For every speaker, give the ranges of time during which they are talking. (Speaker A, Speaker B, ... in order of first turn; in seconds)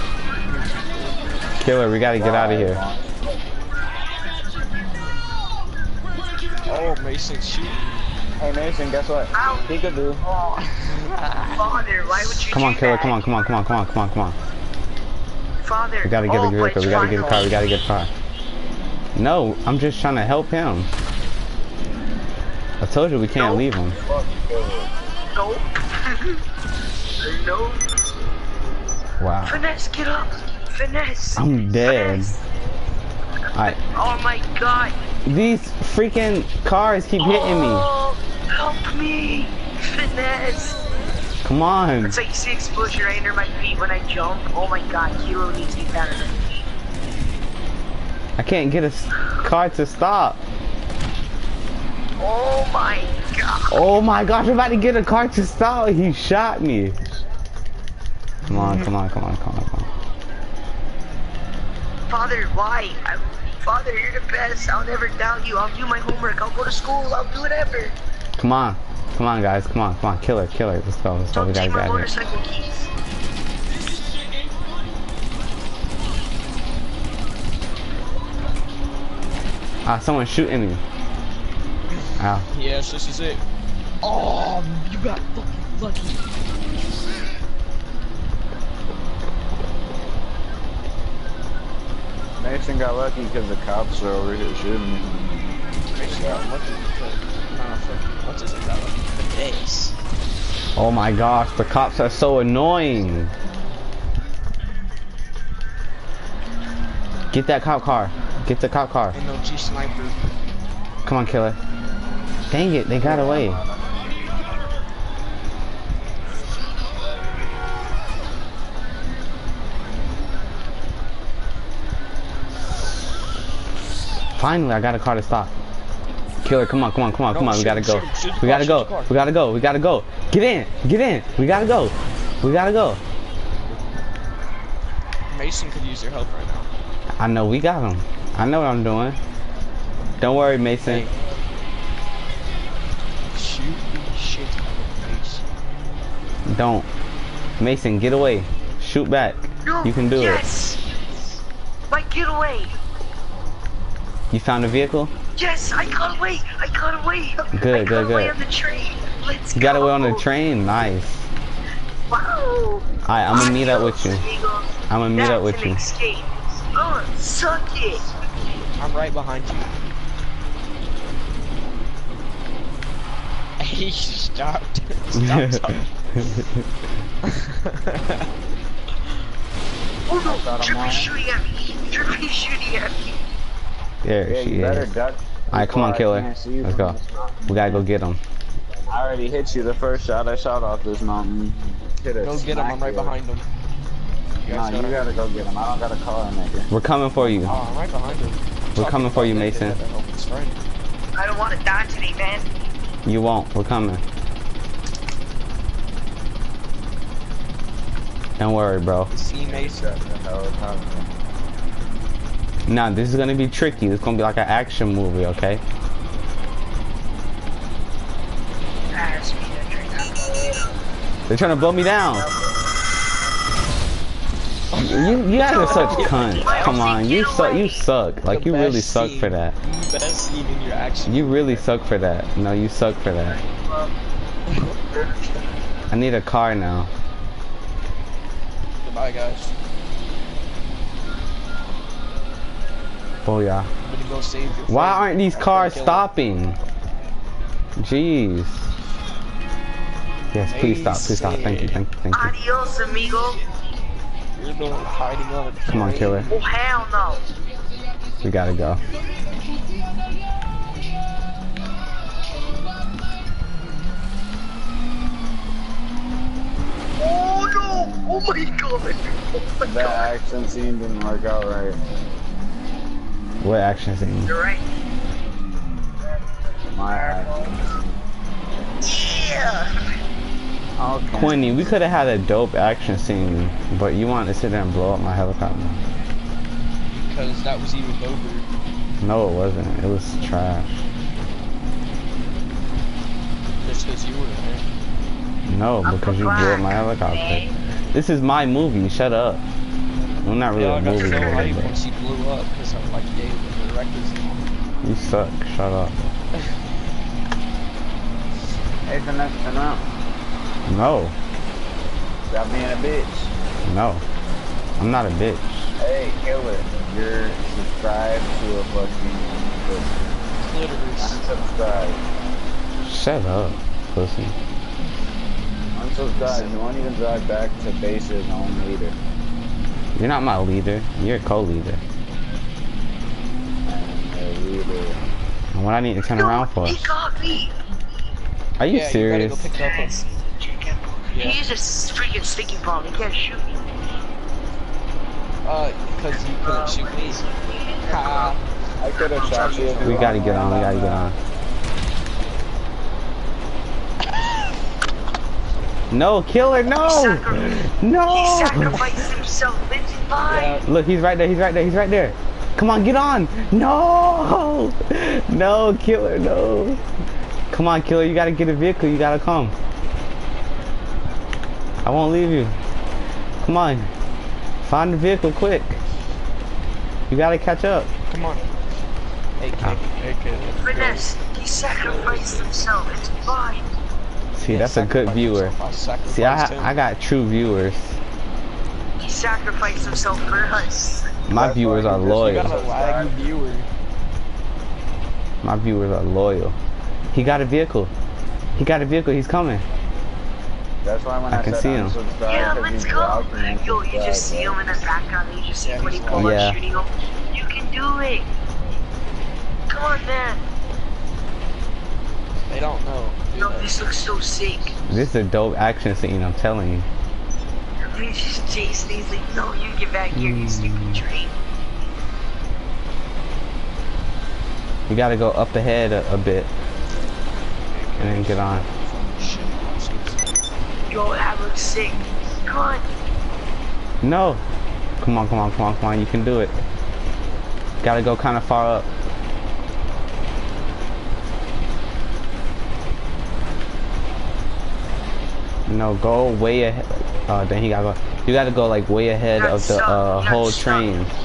Speaker A: 0.5-1.3, 6.6-8.0, 10.6-11.8, 16.9-17.5, 58.5-58.9, 81.9-83.4, 84.0-86.3, 95.9-100.0, 109.1-110.3, 127.3-129.2, 135.3-136.7, 140.8-141.1, 143.3-145.4, 168.8-169.8, 173.6-175.8, 177.2-178.3, 192.2-193.5, 194.4-195.1, 197.4-200.6, 209.1-210.0, 224.7-226.9, 228.2-231.8, 234.5-235.0, 238.8-239.5, 243.8-246.1, 250.5-251.8, 254.3-256.3, 286.9-288.5, 293.6-294.7, 300.5-304.5, 320.4-321.3, 326.2-326.6, 338.6-340.0, 341.1-341.4, 345.4-347.2, 347.9-348.4, 349.3-350.6, 360.2-360.7, 378.1-378.5, 379.4-381.1, 381.8-382.5, 384.5-386.7, 389.8-390.7, 392.0-393.7, 405.6-406.4, 412.5-413.9, 427.7-430.4
Speaker B: 1.6-2.8, 12.5-14.3, 16.0-18.1, 19.1-20.9, 22.8-24.0, 29.2-29.6, 31.4-32.4, 35.2-37.9, 41.5-42.2, 48.4-50.4, 53.7-57.0, 58.5-59.9, 68.4-72.1, 79.8-80.8, 82.2-82.5, 100.7-103.3, 107.3-109.2, 111.0-111.6, 112.5-113.6, 124.3-125.5, 126.4-133.0, 137.2-139.2, 140.2-141.1, 146.4-146.9, 147.6-150.4, 154.3-155.1, 157.5-158.3, 159.5-161.3, 163.1-164.3, 164.9-165.8, 175.2-176.7, 184.0-184.9, 185.5-188.2, 196.7-197.6, 198.7-199.8, 203.0-204.0, 208.4-209.1, 212.7-215.6, 221.3-222.3, 224.8-229.6, 231.1-233.4, 235.9-236.9, 243.2-243.7, 244.7-246.6, 247.8-248.7, 250.3-252.3, 255.7-256.3, 258.2-258.8, 273.4-274.3, 281.1-285.8, 289.0-290.7, 295.4-299.4, 300.2-301.7, 304.8-306.0, 310.6-311.1, 313.6-314.0, 314.8-315.5, 322.8-324.4, 329.9-331.8, 335.5-336.9, 338.6-339.5, 349.8-351.2, 355.9-359.0, 360.6-366.8, 367.5-369.5, 371.8-372.6, 373.4-373.9, 374.6-375.8, 377.1-377.9, 384.4-385.5, 386.1-388.0, 391.3-392.5, 395.4-396.6, 397.1-397.9, 398.6-399.6, 401.3-402.0, 406.1-406.6, 414.9-416.9, 420.1-421.0, 424.9-426.5, 428.0-428.6, 434.0-434.4, 435.0-436.6, 437.8-438.9, 445.7-451.1
Speaker C: 2.1-3.3, 8.4-10.2, 23.9-24.9, 92.4-96.4, 113.0-114.0, 180.2-181.1, 184.3-187.8, 188.9-193.2, 194.5-196.7, 209.4-211.1, 269.6-271.8, 276.7-278.0, 280.8-281.6, 308.9-309.9, 312.3-313.3, 315.8-320.0, 321.0-322.0, 325.7-329.0, 333.7-335.0, 348.8-351.1, 391.3-393.1, 400.8-404.7
Speaker D: 9.3-10.7, 11.5-13.2, 15.6-17.6, 23.3-23.6, 25.3-26.4, 27.2-27.8, 29.4-32.4, 33.5-35.0, 37.2-40.8, 42.1-46.4, 52.2-53.8, 62.1-67.9, 71.3-72.9, 149.6-150.8, 151.9-152.7, 155.3-160.2, 162.1-168.0, 180.1-183.2, 201.2-202.5, 218.9-220.8, 221.9-222.5, 225.4-227.8, 233.4-233.9, 252.1-253.4, 256.3-257.2, 267.0-270.1, 274.2-274.6, 276.8-277.5, 278.8-279.8, 295.8-297.5, 336.0-337.6, 339.5-343.6, 346.4-348.4, 349.0-350.2, 356.7-360.6, 380.6-383.6, 389.0-391.1, 402.2-408.3, 409.7-410.4, 413.4-414.8, 417.9-421.3, 430.9-432.9, 449.3-450.9